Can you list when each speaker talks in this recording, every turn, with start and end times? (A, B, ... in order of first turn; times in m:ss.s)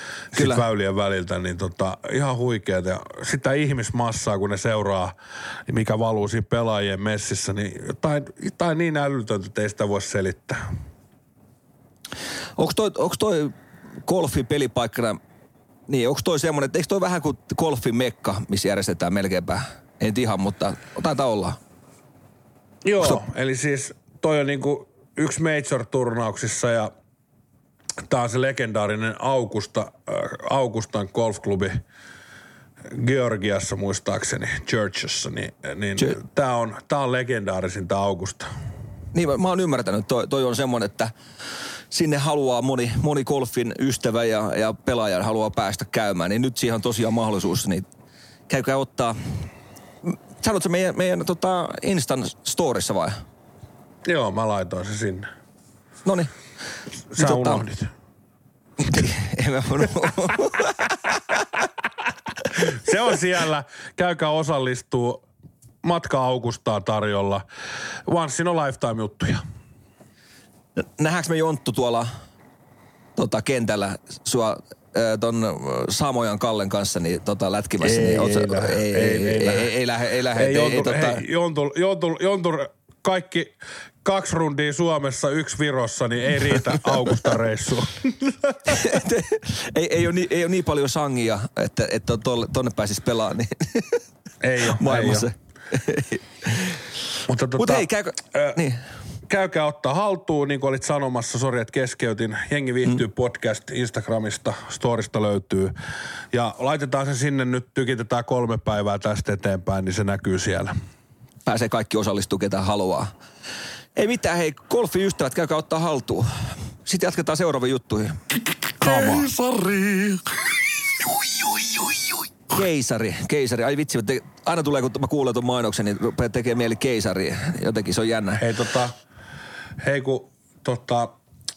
0:00.3-0:00.6 A
0:00.3-0:05.2 B
0:05.7-0:10.6 B
0:12.6-0:13.5 A
0:14.0-0:15.2 A
0:15.9-0:21.6 A
0:22.8-0:26.9 B
0:28.1-0:31.8 B
0:32.9-0:38.5 B
0:39.1-0:41.1 A
0:41.9-0:47.9 A
0:48.5-0:49.2 A
0:50.0-0:53.2 A
0:54.0-0:55.3 B
0:56.0-0:56.3 A
0:57.1-0:57.9 B
0:57.2-0:57.6 A
0:58.8-1:00.8 A
1:02.6-1:05.2 B
1:05.8-1:07.4 B
1:08.1-1:09.4 B
1:10.8-1:12.1 A
1:13.2-1:21.2 A
1:17.8-1:19.7 B
1:20.4-1:28.9 B
1:28.7-1:34.0 A
1:34.4-1:35.3 B
1:34.7-1:36.8 A
1:37.3-1:38.6 B
1:37.6-1:38.8 A
1:39.3-1:45.8 B
1:46.3-1:50.7 B
1:51.5-1:53.1 A
1:54.0-1:56.3 A
1:56.8-1:58.2 A
1:58.8-2:02.3 C
1:58.8-1:59.3 B
2:02.5-2:08.4 A
2:08.4-2:09.0 B
2:09.8-2:11.2 B